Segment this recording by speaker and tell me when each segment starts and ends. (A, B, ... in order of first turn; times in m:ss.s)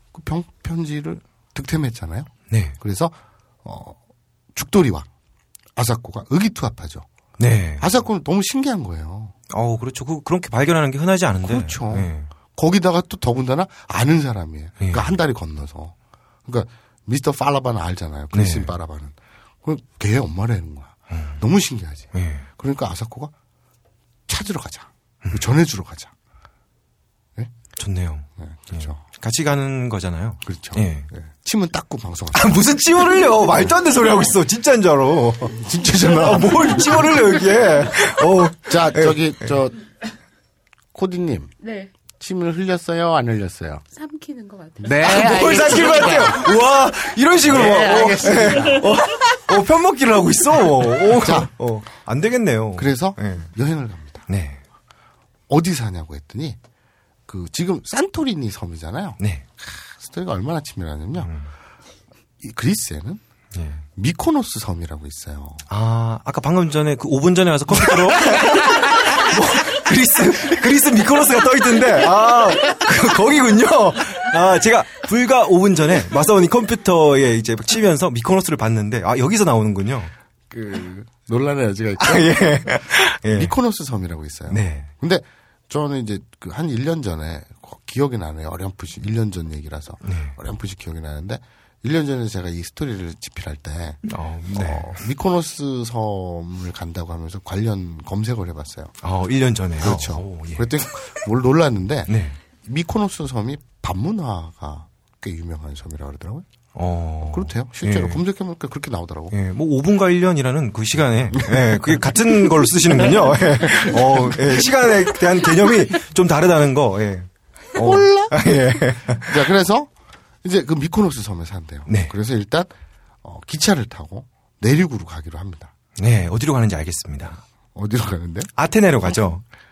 0:00.1-0:04.0 A
0:02.5-0:02.8 B
0:04.5-0:05.1 A
0:05.8-0:07.1 A
0:07.4-0:07.9 B
0:07.8-0:09.3 A
0:09.5-0:12.3 B
0:11.4-0:23.3 A
0:14.8-0:15.1 B
0:18.3-0:18.7 B
0:21.1-0:21.4 B
0:22.1-0:22.5 B
0:24.3-0:26.1 A
0:27.8-0:31.1 B
0:28.4-0:29.0 A
0:30.4-0:32.8 A
0:32.3-0:39.2 B
0:35.6-0:37.0 A
0:38.6-0:39.8 A
0:40.9-0:41.5 A
0:41.6-0:41.9 C
0:42.2-0:43.8 A
0:43.9-0:46.4 C
0:44.8-0:46.5 A
0:45.0-0:53.5 B
0:47.4-0:49.0 A
0:51.1-0:51.5 A
0:52.8-0:54.3 A
0:54.3-0:54.6 B
0:55.5-0:56.6 A
0:57.3-1:01.3 A
1:01.2-1:01.5 B
1:02.4-1:03.2 A
1:03.6-1:03.8 B
1:04.0-1:05.6 A
1:05.7-1:20.1 B
1:07.8-1:08.4 A
1:20.5-1:38.9 A
1:22.0-1:23.5 B
1:24.5-1:24.9 B
1:30.0-1:30.4 B
1:34.1-1:35.0 B
1:39.0-1:40.7 B
1:39.8-1:46.5 A
1:42.1-1:42.4 B
1:46.8-1:48.2 B
1:47.3-1:49.4 A
1:49.3-1:59.3 B
1:51.3-1:52.2 A
1:53.6-1:54.7 A
1:57.8-1:58.5 A
1:59.0-1:59.9 A
2:00.4-2:02.7 A
2:01.9-2:02.1 B
2:03.2-2:05.7 A
2:06.0-2:07.4 B
2:07.8-2:08.5 A
2:08.6-2:09.4 B